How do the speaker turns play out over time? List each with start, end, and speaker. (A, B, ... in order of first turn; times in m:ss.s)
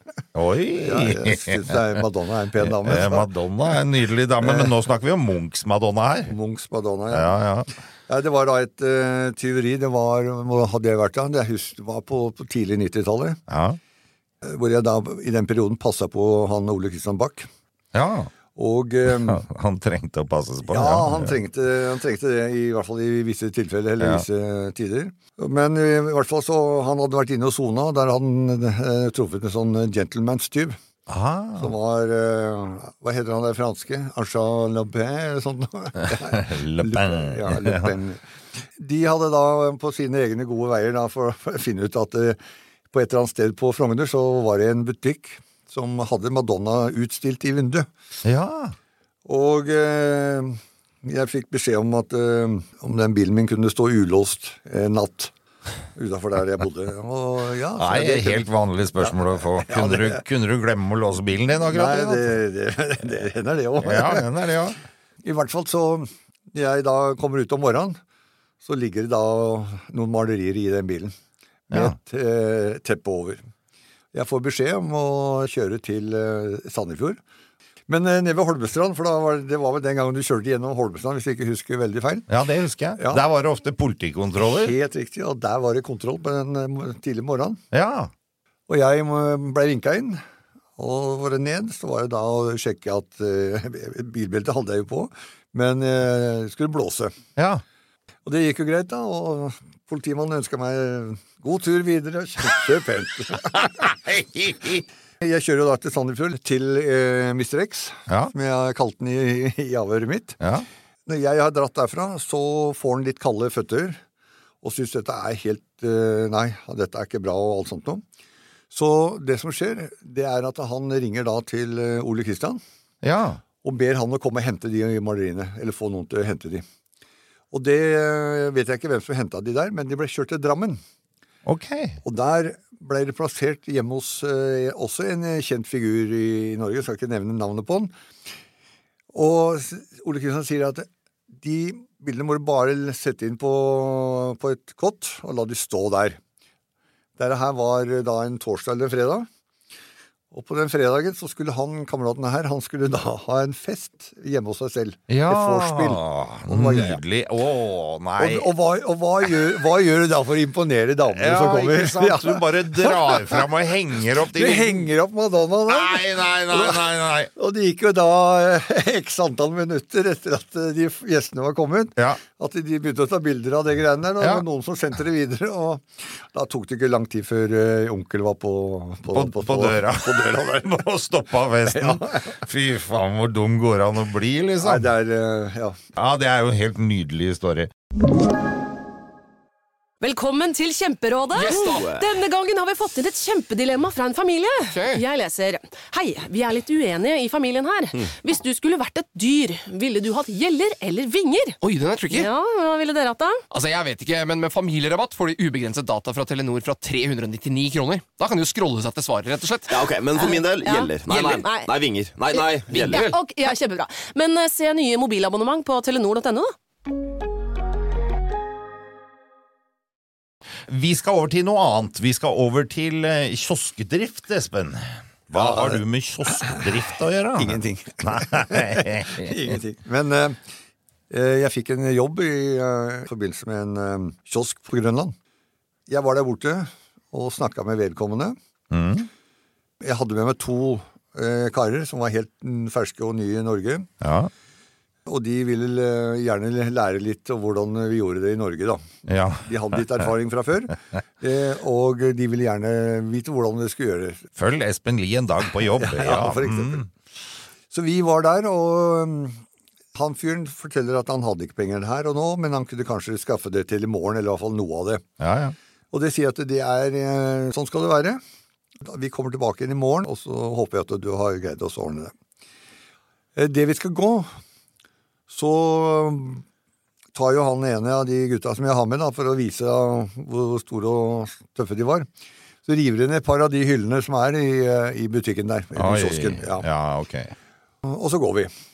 0:00.3-0:02.0 A
0:00.8-0:03.3 B
0:02.6-0:06.3 A
0:04.4-0:04.7 B
0:06.3-0:07.3 B
0:07.1-0:07.7 A
0:08.1-0:13.4 B
0:13.5-0:13.8 A
0:14.4-0:17.5 B
0:17.9-0:18.3 A
0:18.6-0:19.4 B
0:19.1-0:21.4 A
0:20.7-0:30.8 B
0:24.0-0:24.2 A
0:31.1-0:31.7 A
0:31.6-0:38.2 B
0:36.3-0:37.9 A
0:38.8-0:42.4 B
0:42.9-0:47.9 B
0:48.2-0:48.7 A
0:49.2-0:55.3 B
0:55.9-0:58.4 B
0:57.8-1:02.4 A
0:59.0-1:00.2 B
1:01.6-1:04.2 B
1:03.8-1:04.8 A
1:05.2-1:08.0 B
1:08.6-1:11.1 B
1:11.7-1:12.0 A
1:11.7-1:13.4 B
1:14.1-1:17.2 B
1:17.9-1:22.2 B
1:22.3-1:24.7 A
1:24.4-1:27.6 B
1:27.7-1:28.1 A
1:28.7-1:30.2 B
1:30.8-1:37.2 B
1:37.4-1:37.6 A
1:38.2-1:43.9 B
1:43.8-1:44.8 A
1:45.2-1:50.4 B
1:50.4-1:50.6 A
1:51.1-1:54.0 B
1:54.6-1:58.0 B
1:58.7-2:02.6 B
2:03.0-2:03.4 A
2:03.6-2:06.6 B
2:07.5-2:10.8 B
2:11.4-2:12.0 A
2:12.0-2:17.9 B
2:19.1-2:26.2 B
2:27.2-2:29.3 B
2:30.3-2:37.0 B
2:35.1-2:38.5 A
2:38.2-2:43.4 B
2:41.1-2:44.9 A
2:44.2-2:46.8 B
2:45.7-2:47.3 A
2:47.4-3:00.8 B
2:59.1-3:04.9 A
3:01.7-3:02.3 B
3:04.6-3:05.8 B
3:06.0-3:07.7 A
3:10.0-3:21.6 C
3:11.3-3:12.0 D
3:11.6-3:11.9 E
3:14.7-3:15.0 D
3:21.6-3:22.3 D
3:22.1-3:23.4 C
3:23.5-3:29.8 D
3:29.7-3:33.0 E
3:30.2-3:31.7 C
3:32.3-3:36.5 C
3:32.7-3:33.2 D
3:40.7-3:49.6 A
3:45.3-3:45.8 B
3:47.4-3:50.4 B
3:51.1-3:55.1 B
3:55.9-3:58.4 B
3:58.7-3:59.1 A
3:59.8-4:03.9 B
4:04.0-4:04.3 A
4:05.0-4:08.9 B
4:09.1-4:09.4 A
4:09.4-4:14.2 B
4:14.4-4:16.8 A
4:15.7-4:16.8 B
4:17.7-4:19.4 B
4:19.9-4:25.0 B
4:25.2-4:25.5 A
4:25.9-4:28.2 B
4:28.8-4:32.1 B
4:33.4-4:34.3 B
4:35.3-4:36.4 B
4:37.1-4:42.1 B
4:42.6-4:46.6 B
4:45.8-4:47.3 A
4:47.8-4:48.5 B